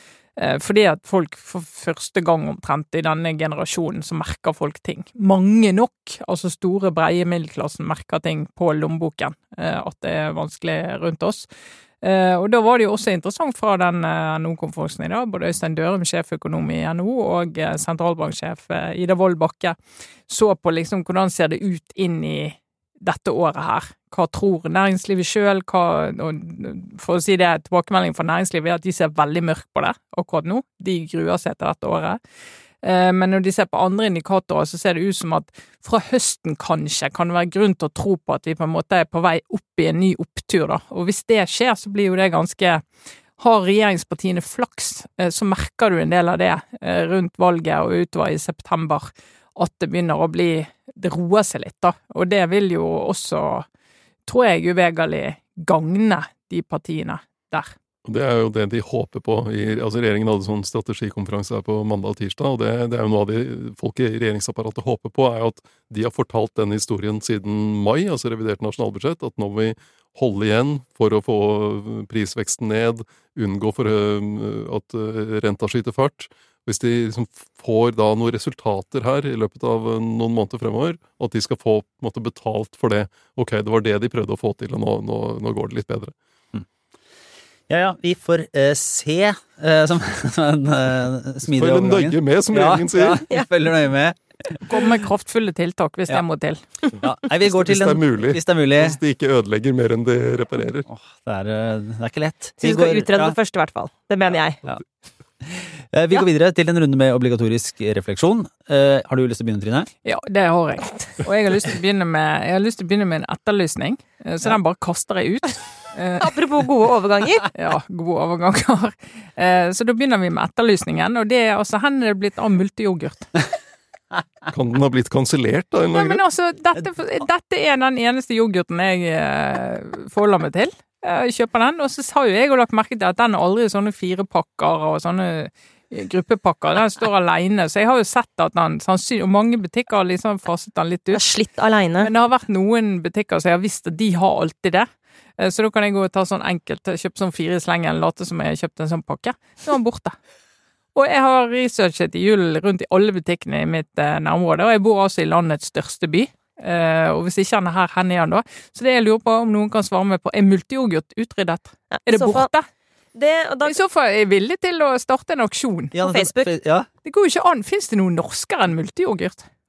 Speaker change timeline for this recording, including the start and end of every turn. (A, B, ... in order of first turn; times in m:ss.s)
0:00.4-0:11.5 A
0:12.0-0:19.8 A
0:20.3-0:32.2 A
0:32.8-0:42.8 A
0:43.4-0:53.6 A
0:54.3-0:57.8 A
0:58.0-1:26.1 B
1:27.7-1:34.7 C
1:31.5-1:33.2 B
1:34.6-1:36.6 A
1:37.0-1:39.0 C
1:37.3-1:40.8 B
1:40.9-1:43.4 C
1:42.6-1:44.6 D
1:45.4-1:49.9 C
1:50.0-1:56.3 A
1:56.2-1:57.5 D
1:57.5-2:03.3 A
2:04.5-2:06.2 B
2:05.9-2:21.3 A
2:21.1-2:22.1 D
2:22.0-2:30.2 A
2:30.9-2:42.6 A
2:41.9-2:42.5 D
2:43.1-2:43.8 D
2:43.6-2:46.3 A
2:45.9-2:46.9 C
2:47.0-2:49.4 A